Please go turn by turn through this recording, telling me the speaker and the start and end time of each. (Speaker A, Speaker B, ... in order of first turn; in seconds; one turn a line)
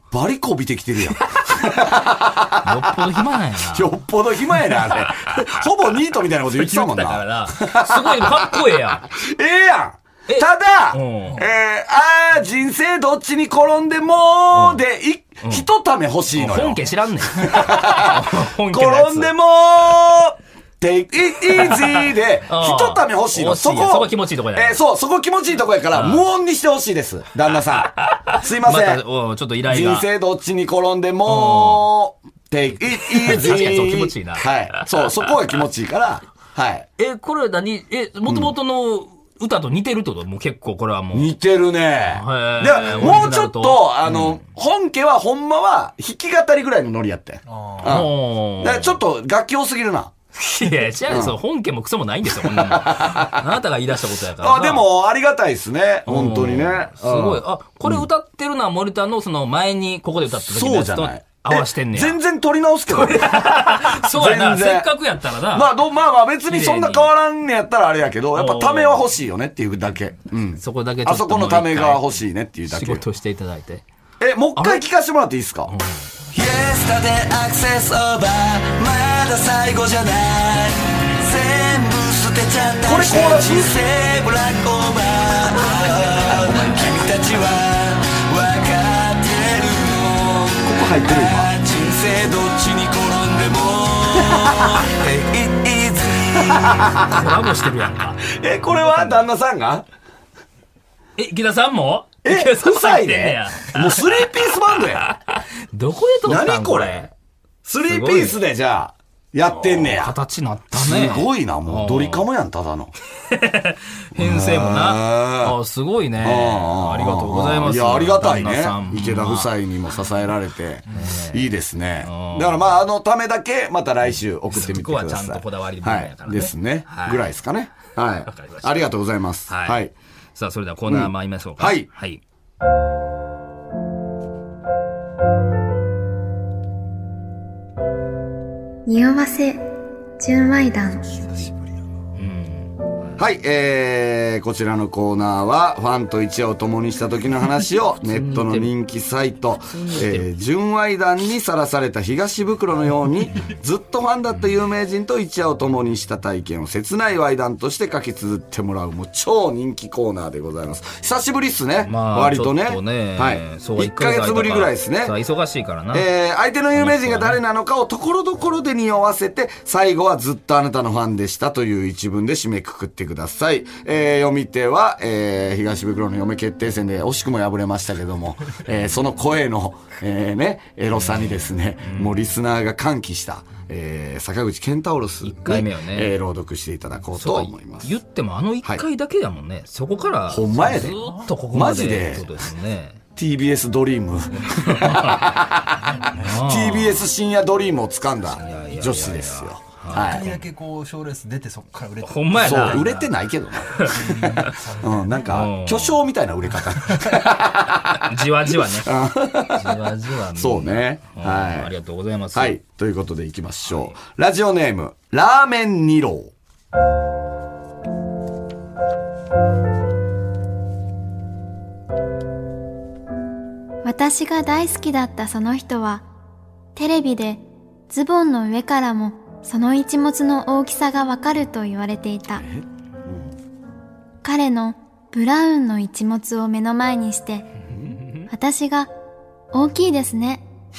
Speaker A: 0.1-3.0
Speaker B: 2.6-3.9
Speaker A: 3.6-29.0
Speaker B: 4.7-5.1
Speaker B: 6.5-9.1
Speaker B: 10.3-11.4
Speaker B: 14.5-14.8
Speaker B: 16.4-19.3
Speaker B: 21.6-24.8
Speaker B: 25.9-26.2
Speaker B: 28.3-30.1
Speaker A: 29.7-36.9
Speaker B: 31.3-31.9
Speaker B: 33.1-34.9
Speaker B: 37.0-41.3
Speaker A: 41.1-50.1
Speaker B: 42.1-44.4
Speaker C: 47.5-48.0
Speaker B: 47.8-49.0
Speaker B: 50.4-54.9
Speaker A: 51.1-51.4
Speaker A: 52.4-53.5
Speaker A: 54.4-58.0
Speaker B: 56.1-62.2
Speaker A: 60.5-64.9
Speaker B: 62.9-65.7
Speaker A: 65.5-73.0
Speaker B: 66.5-67.1
Speaker B: 68.3-69.1
Speaker B: 70.6-72.1
Speaker B: 72.7-73.8
Speaker A: 74.2-75.7
Speaker B: 74.6-74.8
Speaker B: 75.7-76.0
Speaker D: 76.3-96.9
Speaker A: 82.8-83.8
Speaker A: 90.6-91.5
Speaker A: 94.2-94.8
Speaker A: 96.5-97.3
Speaker B: 97.0-99.2
Speaker A: 98.3-99.9
Speaker B: 101.2-107.1
Speaker A: 102.2-105.1
Speaker A: 106.2-107.1
Speaker A: 107.7-110.2
Speaker B: 107.9-108.4
Speaker B: 109.5-112.3
Speaker A: 110.7-112.9
Speaker B: 113.3-119.5
Speaker A: 114.2-115.6
Speaker A: 116.2-129.9
Speaker B: 120.9-121.5
Speaker B: 122.0-122.8
Speaker B: 124.5-127.3
Speaker B: 128.3-128.9
Speaker B: 129.5-129.8
Speaker B: 130.3-132.2
Speaker A: 130.9-131.9
Speaker E: 138.9-139.6
Speaker E: 140.2-141.2
Speaker C: 141.1-142.0
Speaker B: 142.2-142.7
Speaker A: 143.2-165.2
Speaker B: 148.1-148.7
Speaker B: 149.7-150.3
Speaker B: 161.8-166.1
Speaker A: 165.9-187.9
Speaker B: 166.8-167.4
Speaker B: 180.9-182.2
Speaker B: 185.2-186.1
Speaker B: 187.2-193.0
Speaker A: 190.3-191.0
Speaker C: 190.9-191.3
Speaker A: 191.5-192.3
Speaker A: 193.2-200.3
Speaker B: 194.5-195.4
Speaker B: 196.1-197.0
Speaker B: 198.4-200.4
Speaker C: 199.9-202.9
Speaker B: 202.0-203.1
Speaker A: 202.4-208.1
Speaker B: 203.7-204.5
Speaker C: 203.9-205.3
Speaker B: 205.3-206.0
Speaker B: 208.0-208.9
Speaker A: 208.7-209.8
Speaker B: 209.5-212.6
Speaker A: 210.4-211.7
Speaker A: 212.3-216.3
Speaker B: 213.7-213.9
Speaker E: 223.8-226.1
Speaker E: 226.8-232.5
Speaker A: 232.4-233.3
Speaker E: 234.2-237.5
Speaker E: 238.3-238.9
Speaker E: 239.5-240.4